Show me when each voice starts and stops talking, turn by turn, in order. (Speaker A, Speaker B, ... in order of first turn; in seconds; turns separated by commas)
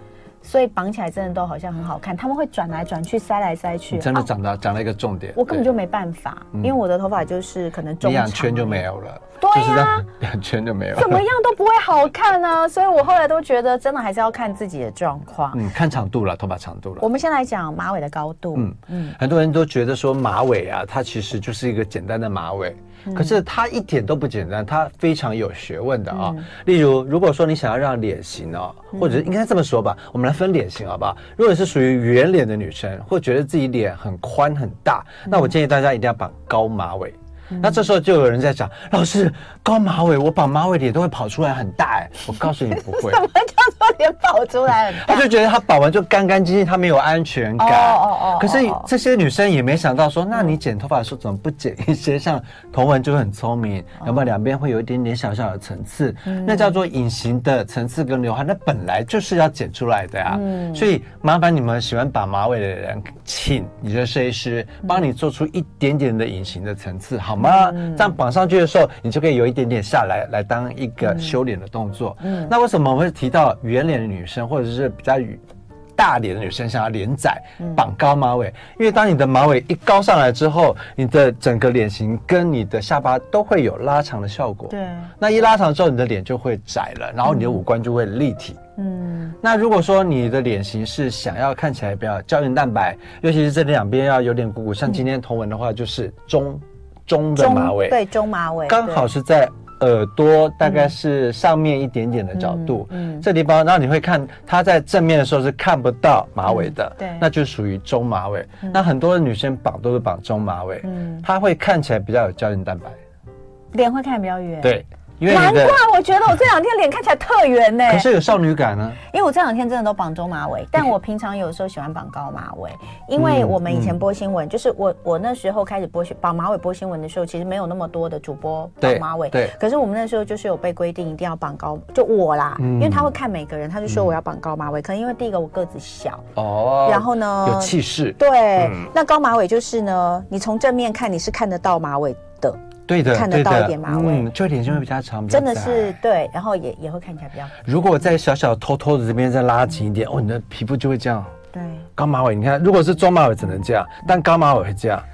Speaker A: 0.4-4.3, Speaker B: 3.9-5.7, Speaker A: 5.3-8.8, Speaker B: 8.0-11.2, Speaker A: 9.4-10.1, Speaker A: 10.9-15.6, Speaker B: 15.5-17.0, Speaker A: 17.0-19.2, Speaker B: 18.5-43.2, Speaker A: 23.1-23.4, Speaker A: 26.1-26.5, Speaker A: 28.9-29.3, Speaker A: 37.5-37.8, Speaker A: 42.4-45.3, Speaker B: 44.9-75.4, Speaker A: 47.6-48.9, Speaker A: 56.2-56.8, Speaker A: 60.3-60.9, Speaker A: 67.4-68.1, Speaker A: 71.0-71.3, Speaker A: 72.2-72.5, Speaker B: 76.0-88.6, Speaker A: 84.7-85.1, Speaker A: 87.3-87.6, Speaker A: 88.8-89.3, Speaker B: 89.4-98.0, Speaker A: 97.4-99.1, Speaker B: 98.7-113.0, Speaker A: 100.6-100.9, Speaker A: 102.3-103.2, Speaker A: 106.5-107.2, Speaker A: 110.8-111.2, Speaker A: 113.7-118.1, Speaker B: 114.6-115.8, Speaker B: 117.9-119.0, Speaker A: 119.0-136.3, Speaker B: 123.2-124.0, Speaker B: 128.8-129.5, Speaker B: 132.6-133.1, Speaker B: 133.9-134.1, Speaker B: 136.3-138.9, Speaker A: 136.8-144.3, Speaker B: 142.9-146.0, Speaker A: 145.3-147.6, Speaker B: 147.6-151.3, Speaker A: 151.5-151.9, Speaker B: 151.9-155.0